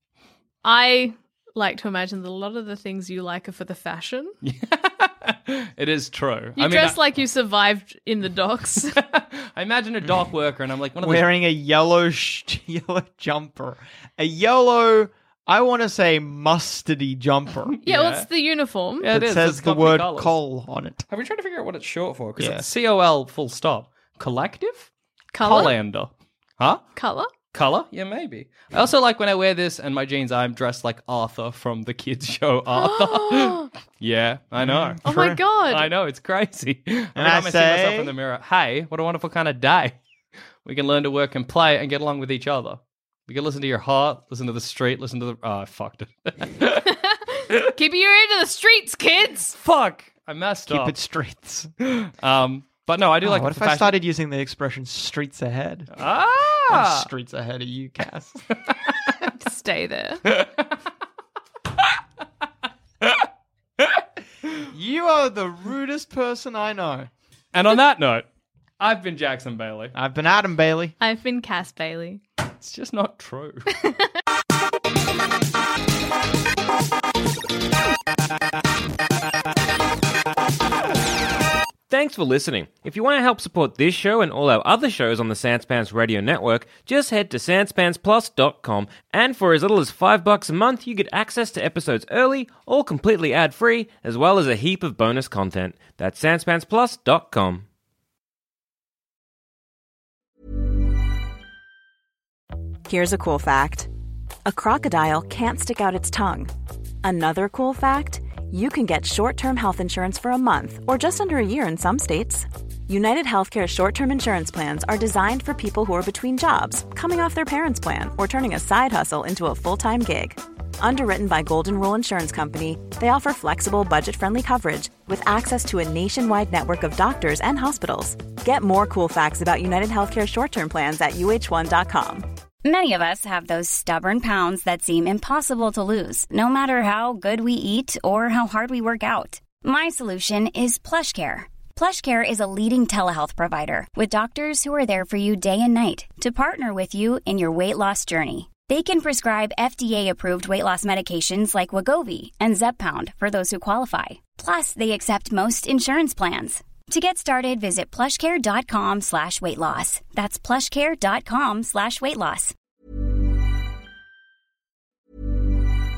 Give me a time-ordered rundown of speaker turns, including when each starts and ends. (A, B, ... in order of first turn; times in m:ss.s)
0:00.6-0:04.3 A
0:04.4-0:07.0 B
0:06.6-0:09.0 A
0:09.0-0:11.2 B
0:11.0-0:17.8 C
0:17.8-0:18.3 B
0:17.8-0:19.1 A
0:19.0-0:20.4 B
0:19.1-0:21.0 C
0:21.1-0:24.9 B
0:22.4-0:22.6 C
0:25.3-0:25.7 A
0:25.4-0:26.8 B
0:27.0-0:27.3 A
0:27.5-0:35.1 B
0:32.7-0:33.7 A
0:34.6-0:35.4 C
0:35.0-0:35.9 A
0:35.7-0:39.9 B
0:37.2-0:38.1 C
0:40.6-0:46.9 B
0:46.9-0:49.5 A
0:49.5-0:50.9 B
0:50.7-0:51.7 C
0:51.8-0:54.0 B
0:53.2-0:55.9 C
0:55.9-0:57.1 B
0:56.7-0:58.4 C
0:59.4-1:00.2 A
1:00.3-1:00.7 B
1:04.7-1:07.1 C
1:07.5-1:08.2 B
1:08.8-1:09.9 B
1:09.9-1:10.9 C
1:11.0-1:12.2 A
1:12.6-1:13.7 B
1:13.8-1:14.1 A
1:21.9-1:37.6 D
1:42.8-1:43.9 E
1:44.4-1:46.5 E
1:47.0-2:12.3 E
2:12.6-2:42.5 F